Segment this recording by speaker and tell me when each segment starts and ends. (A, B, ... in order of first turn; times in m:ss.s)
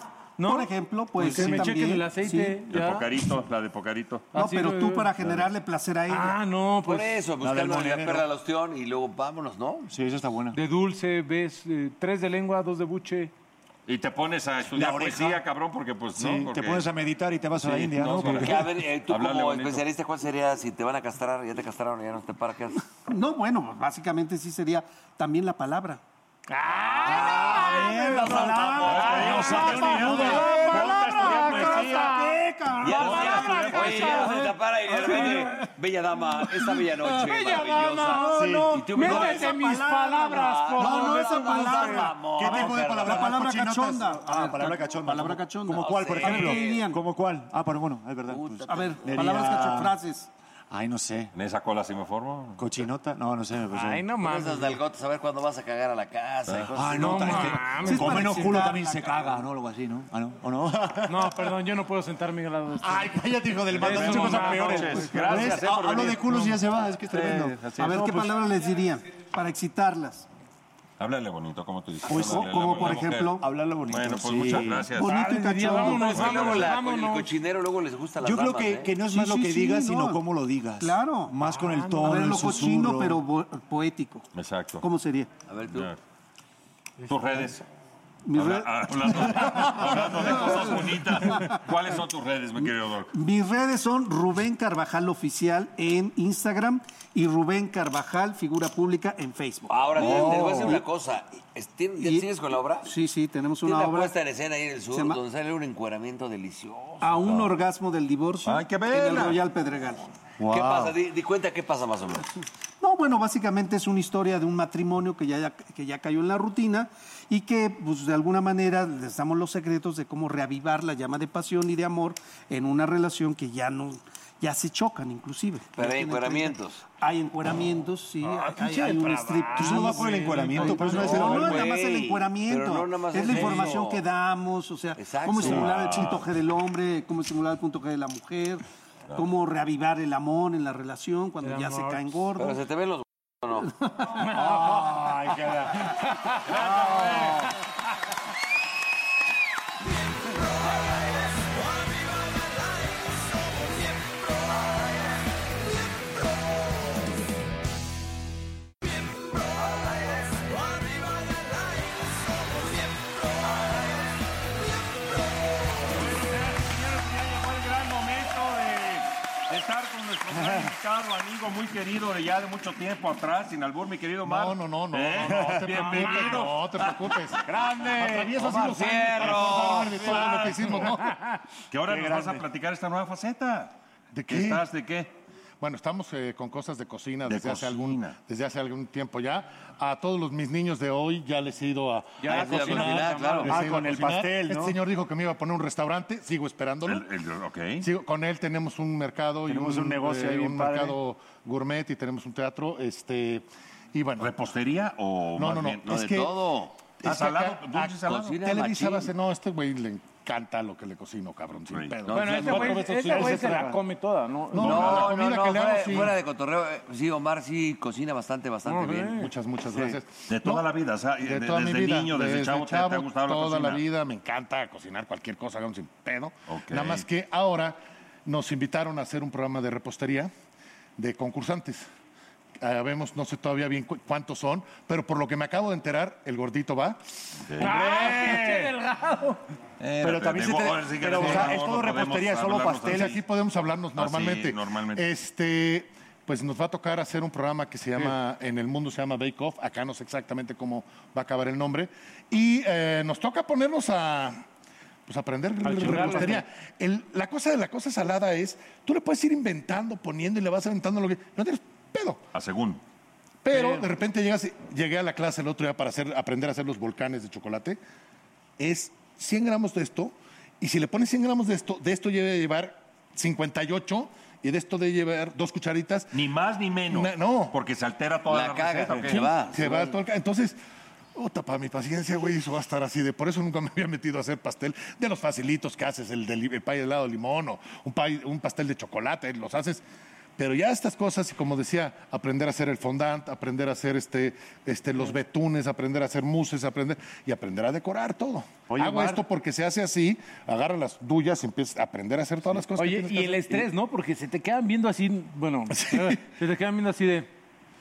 0:00.4-0:03.2 A
0:00.4-0:02.6 B
0:01.3-0:01.6 C
0:02.7-0:04.3 D
0:04.3-0:05.2 A
0:04.3-0:06.4 B
0:06.1-0:07.3 A
0:06.8-0:09.9 E
0:07.4-0:08.3 C
0:09.9-0:10.6 C
0:10.5-0:13.3 A
0:13.9-0:16.9 D
0:14.7-0:15.4 C
0:16.1-0:18.7 C
0:17.6-0:19.8 D
0:18.2-0:22.8 E
0:23.1-0:26.0 B
0:26.5-0:35.7 A
0:26.9-0:29.4 E
0:27.2-0:33.8 B
0:28.2-0:28.6 C
0:28.8-0:32.2 D
0:29.1-0:30.8 C
0:32.8-0:39.8 E
0:32.9-0:34.3 D
0:36.4-0:42.1 A
0:38.4-0:47.0 B
0:38.4-0:38.7 C
0:40.4-0:43.4 E
0:40.8-0:50.0 C
0:45.8-0:46.9 E
0:48.3-0:49.5 E
0:48.7-0:50.3 B
0:50.7-0:51.3 C
0:51.4-0:52.6 D
0:52.6-0:54.1 C
0:53.7-0:54.8 A
0:54.2-0:57.6 E
0:56.5-0:56.7 D
0:56.7-1:01.4 C
0:56.9-0:58.7 A
0:57.9-0:59.3 B
1:01.1-1:03.2 A
1:02.8-1:08.4 C
1:03.7-1:05.5 A
1:03.7-1:08.1 D
1:07.8-1:10.3 B
1:11.0-1:15.2 D
1:12.1-1:14.9 C
1:12.1-1:13.4 B
1:15.0-1:16.2 B
1:15.0-1:17.3 A
1:15.7-1:19.0 E
1:16.2-1:16.8 D
1:18.2-1:23.2 C
1:19.0-1:20.2 B
1:20.8-1:21.4 B
1:21.4-1:22.7 A
1:22.0-1:24.3 B
1:24.4-1:24.8 D
1:24.8-1:25.3 B
1:25.5-1:25.9 E
1:25.7-1:26.0 D
1:27.1-1:27.6 D
1:28.3-1:31.6 B
1:28.4-1:33.1 D
1:32.6-1:40.8 B
1:39.7-1:42.9 E
1:40.0-1:40.8 C
1:42.0-1:42.3 B
1:42.8-1:44.2 B
1:43.6-1:47.4 E
1:44.9-1:45.2 B
1:47.0-1:50.0 B
1:48.4-1:49.4 D
1:50.4-1:50.9 C
1:50.4-1:52.2 E
1:52.8-2:22.6 B
2:05.8-2:06.8 E
2:08.2-2:11.6 A
2:09.5-2:11.7 C
2:10.9-2:14.1 E
2:13.3-2:13.8 A
2:15.0-2:16.1 E
2:15.4-2:16.3 D
2:21.4-2:22.3 A
2:22.4-2:23.7 E
2:24.2-2:25.0 A
2:24.2-2:25.9 C
2:25.8-2:26.5 A
2:26.5-2:27.4 D
2:26.5-2:27.5 C
2:29.9-2:36.9 B
2:38.8-2:45.9 B
2:45.9-2:57.2 D
2:50.3-2:50.7 C
2:54.2-2:57.4 F
2:55.3-2:55.6 C
2:55.9-2:56.4 A
2:57.4-2:58.6 C
2:58.0-3:01.2 F
2:58.4-3:00.3 E
2:59.2-3:00.9 D
3:01.7-3:03.7 D
3:01.9-3:02.4 C
3:04.1-3:04.7 F
3:04.3-3:05.1 D
3:05.6-3:17.1 F
3:07.3-3:08.2 D
3:12.2-3:13.6 A
3:12.2-3:13.6 E
3:13.4-3:14.8 C
3:16.9-3:17.9 D
3:17.8-3:24.3 F
3:19.5-3:21.0 C
3:24.2-3:25.9 D
3:25.3-3:26.4 F
3:25.8-3:26.8 E
3:26.9-3:33.8 F
3:27.0-3:28.4 D
3:28.0-3:29.1 E
3:31.7-3:32.3 D
3:32.1-3:33.0 E
3:32.1-3:35.0 A
3:32.6-3:33.7 C
3:34.5-3:36.2 F
3:34.6-3:39.2 E
3:34.7-3:35.1 D
3:38.6-3:39.3 A
3:39.1-3:40.7 F
3:40.3-3:43.8 D
3:41.2-3:50.3 F
3:46.5-3:47.0 D
3:51.0-3:51.9 F
3:52.6-3:57.0 F
3:57.4-3:57.8 D
3:57.6-3:59.4 A
3:57.7-3:58.6 C
3:59.8-4:03.2 D
4:00.0-4:03.2 C
4:01.2-4:01.6 F
4:02.8-4:14.4 F
4:04.0-4:05.0 D
4:15.1-4:22.2 F
4:15.6-4:16.4 A
4:22.3-4:22.8 D
4:23.4-4:27.8 F
4:23.5-4:23.9 A
4:28.6-4:36.2 F
4:36.1-4:39.3 D
4:36.9-4:37.6 F
4:38.3-4:40.0 E
4:39.0-4:40.6 F
4:41.1-4:49.8 F
4:50.4-5:03.6 F
4:58.7-4:59.2 C
5:02.8-5:07.3 A
5:05.7-5:06.3 F